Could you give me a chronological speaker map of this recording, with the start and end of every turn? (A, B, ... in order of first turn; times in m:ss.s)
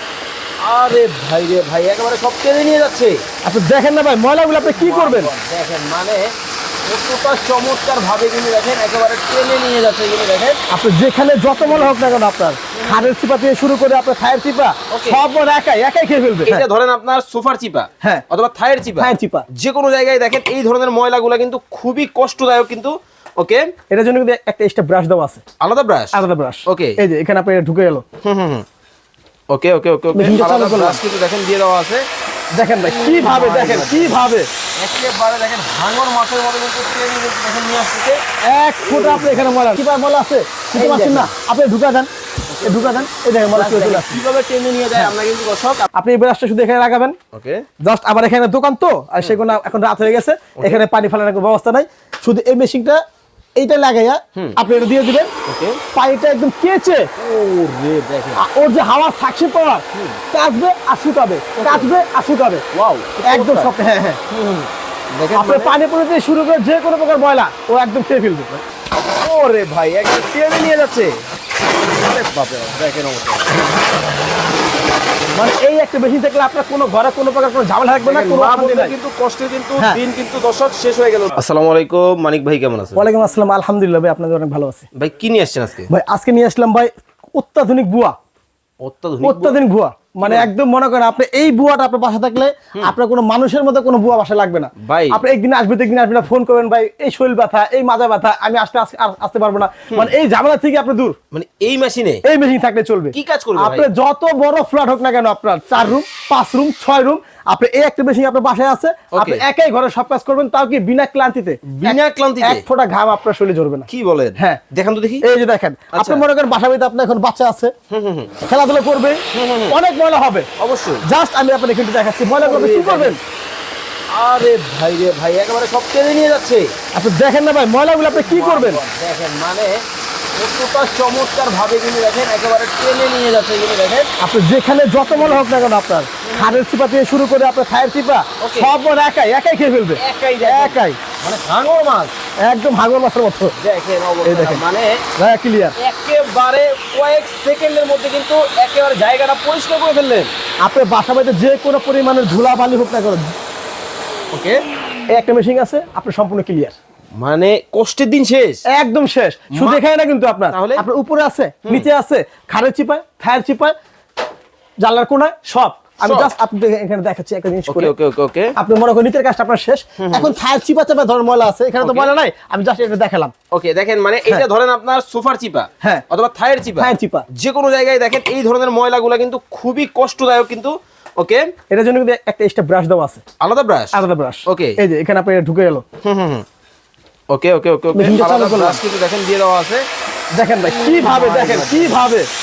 0:00.6-0:03.2 A
0:03.4-0:05.3 B
0:04.6-0:06.3 A
0:06.8-0:10.6 A
0:10.7-0:16.6 B
0:11.6-0:12.0 A
0:12.7-0:13.1 A
0:14.9-0:15.2 A
0:16.4-0:23.6 A
0:19.0-0:19.4 B
0:23.9-0:25.4 B
0:25.6-0:27.0 A
0:26.1-0:28.0 B
0:28.2-0:28.6 A
0:29.5-0:32.0 A
0:30.1-0:31.0 B
0:32.5-0:34.5 B
0:32.8-0:34.2 A
0:34.8-0:38.2 A
0:38.4-0:42.1 B
0:38.8-0:39.4 A
0:40.7-0:41.3 A
0:42.5-0:45.9 A
0:42.6-0:44.2 B
0:45.9-0:47.2 B
0:47.3-0:47.6 A
0:47.8-0:53.0 B
0:50.6-0:50.8 A
0:53.6-0:55.3 B
0:55.4-0:55.8 A
0:55.9-0:57.1 B
0:57.2-0:58.4 A
0:58.4-1:02.6 B
1:01.6-1:01.9 A
1:02.7-1:03.7 A
1:03.2-1:04.2 B
1:04.3-1:05.7 A
1:05.3-1:08.5 B
1:09.1-1:11.1 A
1:11.9-1:13.5 A
1:15.3-1:18.9 B
1:18.0-1:23.0 A
1:22.9-1:24.8 B
1:24.9-1:25.9 A
1:25.9-1:28.1 B
1:28.8-1:29.6 A
1:29.2-1:41.2 B
1:30.2-1:30.5 A
1:34.8-1:35.2 A
1:41.3-1:42.2 A
1:42.2-1:54.6 B
1:43.1-1:43.9 A
1:49.1-1:49.4 A
1:51.6-1:52.6 A
1:53.9-1:55.2 A
1:55.2-1:57.7 B
1:55.9-1:56.2 A
1:57.9-1:58.3 A
1:58.4-2:00.5 B
1:59.3-1:59.8 A
2:00.6-2:01.0 A
2:01.0-2:03.2 B
2:02.4-2:03.2 A
2:04.1-2:06.7 A
2:06.9-2:08.8 B
2:08.1-2:09.8 A
2:10.4-2:14.1 A
2:14.2-2:21.0 B
2:15.1-2:15.6 A
2:16.2-2:16.6 A
2:18.4-2:18.7 A
2:20.0-2:22.1 A
2:22.4-2:23.6 B
2:23.6-2:25.0 A
2:24.2-2:24.6 B
2:25.2-2:25.8 B
2:25.8-2:30.3 A
2:30.6-2:33.3 B
2:34.3-2:34.6 A
2:35.1-2:36.7 B
2:37.2-2:38.6 A
2:38.7-2:43.7 B
2:39.5-2:39.8 A
2:40.5-2:40.8 A
2:44.8-2:47.9 B
2:46.0-2:46.3 A
2:47.7-2:48.5 A
2:48.6-2:53.3 B
2:50.0-2:50.3 A
2:51.8-2:52.1 A
2:53.5-3:01.5 A
2:56.8-2:57.2 B
3:01.7-3:03.2 B
3:03.4-3:04.8 A
3:03.9-3:05.8 B
3:06.0-3:06.4 A
3:07.3-3:09.8 A
3:07.9-3:08.8 B
3:10.3-3:12.3 B
3:10.6-3:12.0 A